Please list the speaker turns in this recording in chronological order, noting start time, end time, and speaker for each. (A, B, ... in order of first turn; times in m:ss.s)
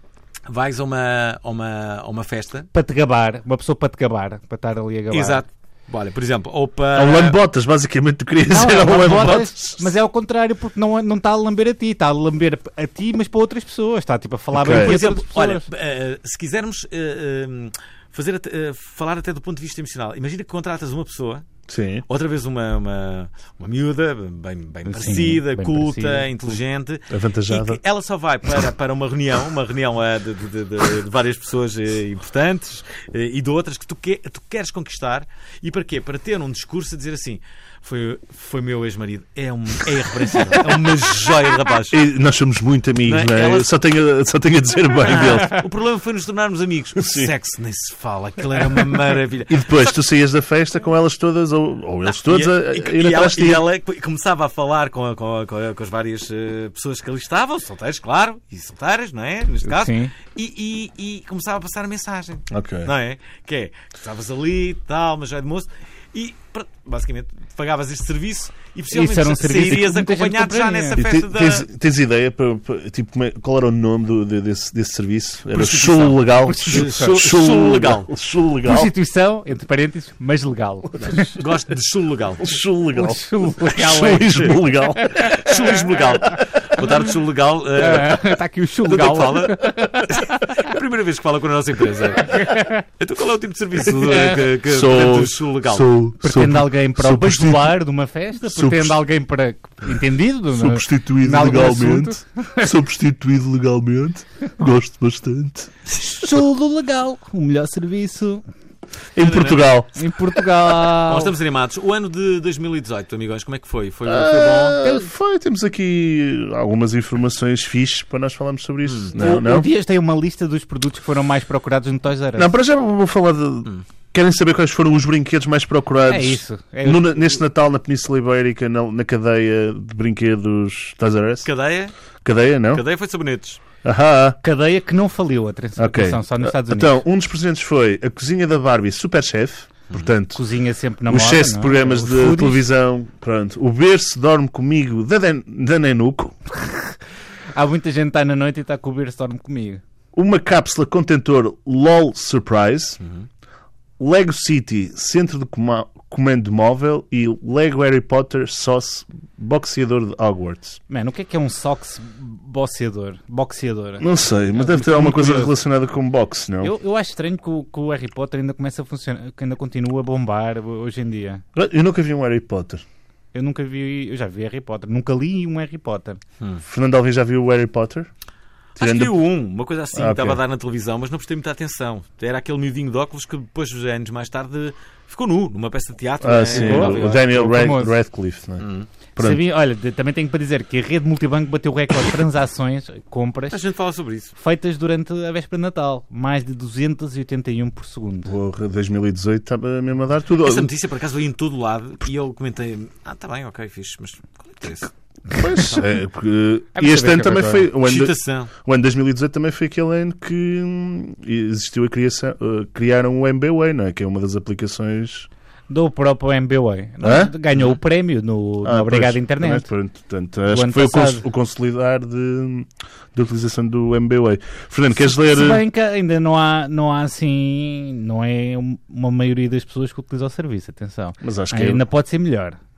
0:00.5-0:02.7 A
0:02.7-0:05.4 B
0:05.1-0:07.4 A
0:06.9-0:09.8 C
0:08.5-0:15.6 B
0:14.5-0:15.0 C
0:14.6-0:21.5 A
0:21.7-0:22.0 C
0:22.1-0:42.0 A
0:24.9-0:26.3 B
0:27.1-0:27.8 C
0:41.9-0:45.6 C
0:43.0-0:43.7 A
0:45.0-0:50.0 A
0:47.0-0:47.3 C
0:49.5-0:53.7 C
0:52.0-1:11.7 A
0:59.6-1:00.1 B
1:02.5-1:02.9 C
1:08.9-1:11.0 B
1:11.0-1:18.9 C
1:15.5-1:18.1 A
1:16.4-1:17.1 B
1:18.6-1:21.3 B
1:21.0-1:22.5 A
1:22.4-1:25.4 C
1:22.9-1:25.3 B
1:24.2-1:24.5 A
1:25.1-1:35.9 A
1:27.8-1:30.4 B
1:32.3-1:32.8 B
1:34.1-1:37.8 C
1:36.2-1:42.7 B
1:38.4-1:39.0 C
1:40.5-1:45.7 C
1:46.1-1:48.4 B
1:49.1-1:50.0 C
1:49.2-1:49.7 A
1:50.0-1:51.3 B
1:51.0-1:54.8 A
1:54.0-1:59.7 C
1:58.8-1:59.1 A
1:59.2-2:02.5 B
2:02.4-2:11.5 C
2:06.1-2:07.4 B
2:11.4-2:11.9 A
2:12.2-2:12.8 C
2:12.7-2:13.6 A
2:13.8-2:14.4 C
2:14.4-2:17.0 B
2:15.8-2:20.4 C
2:20.3-2:22.6 B
2:21.1-2:26.4 C
2:26.5-2:27.0 B
2:27.5-2:29.8 B
2:30.1-2:33.0 C
2:33.0-2:33.2 A
2:34.0-2:40.8 C
2:40.9-2:45.5 B
2:44.0-2:46.7 C
2:46.6-2:51.4 B
2:51.5-2:52.8 C
2:53.3-2:56.2 B
2:56.6-2:58.1 C
2:58.8-3:07.2 A
2:58.8-2:59.1 C
2:59.9-3:00.4 C
3:06.2-3:09.4 C
3:06.5-3:07.9 B
3:08.6-3:08.9 A
3:09.2-3:13.6 B
3:13.5-3:14.3 A
3:14.4-3:18.3 B
3:18.2-3:20.7 C
3:20.4-3:24.9 A
3:25.3-3:35.3 C
3:26.7-3:27.7 B
3:27.8-3:28.5 A
3:35.7-3:39.7 B
3:37.0-3:37.3 C
3:38.6-3:45.6 C
3:40.5-3:41.2 B
3:45.1-3:52.6 B
3:51.2-3:51.8 C